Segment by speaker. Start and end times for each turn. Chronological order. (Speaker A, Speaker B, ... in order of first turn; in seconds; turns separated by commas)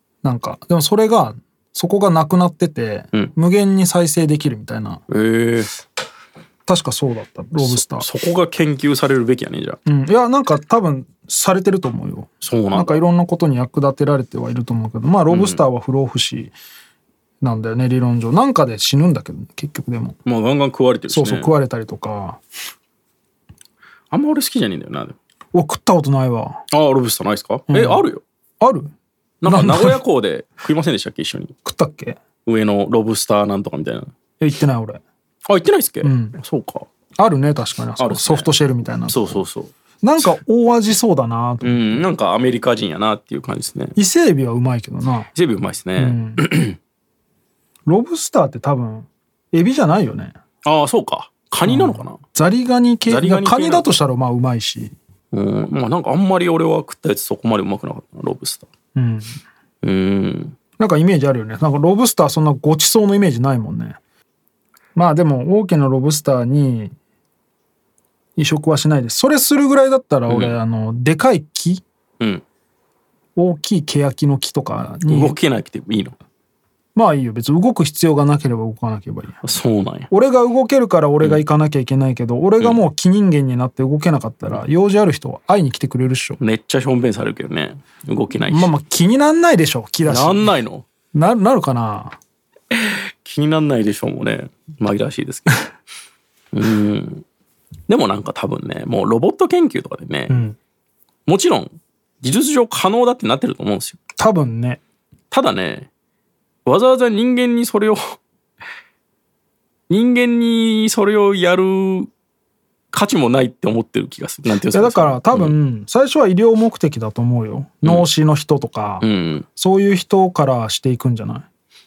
Speaker A: 0.2-5.0, Speaker B: 5.1-5.8, Speaker A: 6.7-8.1, Speaker B: 7.6-9.8, Speaker A: 9.8-16.5, Speaker B: 12.4-13.0, Speaker B: 15.3-15.7, Speaker A: 17.4-20.2, Speaker B: 20.2-21.5, Speaker A: 21.1-22.4, Speaker B: 24.1-25.1, Speaker A: 25.5-26.6, Speaker B: 26.7-28.2, Speaker A: 27.7-28.1, Speaker A: 28.6-28.9, Speaker B: 29.4-31.5, Speaker A: 29.4-30.0, Speaker A: 31.6-32.2, Speaker B: 32.4-34.1, Speaker A: 34.4-35.0, Speaker B: 35.5-36.9, Speaker A: 36.0-36.4, Speaker A: 37.2-39.4, Speaker B: 38.0-38.5, Speaker B: 39.1-40.4, Speaker A: 40.0-42.1, Speaker B: 41.6-43.9, Speaker A: 44.0-45.3, Speaker B: 45.3-46.8, Speaker A: 46.0-46.4, Speaker A: 47.9-50.3, Speaker B: 50.6-52.2, Speaker A: 51.6-54.9, Speaker B: 53.1-53.9, Speaker B: 55.3-58.6, Speaker A: 58.9-59.4, Speaker B: 59.8-60.6, Speaker A: 60.8-64.0, Speaker A: 64.9-66.9, Speaker A: 68.4-71.8, Speaker B: 70.3-70.6, Speaker A: 73.3-75.4, Speaker B: 75.0-76.2, Speaker A: 76.9-79.4, Speaker B: 79.4-80.1, Speaker A: 80.1-86.4, Speaker B: 86.4-88.7, Speaker A: 88.5-90.6, Speaker B: 90.0-90.8, Speaker A: 91.1-92.2, Speaker B: 93.2-95.6, Speaker B: 96.5-97.2, Speaker B: 97.9-100.4, Speaker A: 100.3-100.5, Speaker B: 101.2-104.0, Speaker A: 104.2-104.8, Speaker B: 105.3-105.9, Speaker B: 106.7-108.2, Speaker B: 109.9-112.1, Speaker B: 112.9-115.6, Speaker A: 114.7-121.5, Speaker B: 119.0-119.5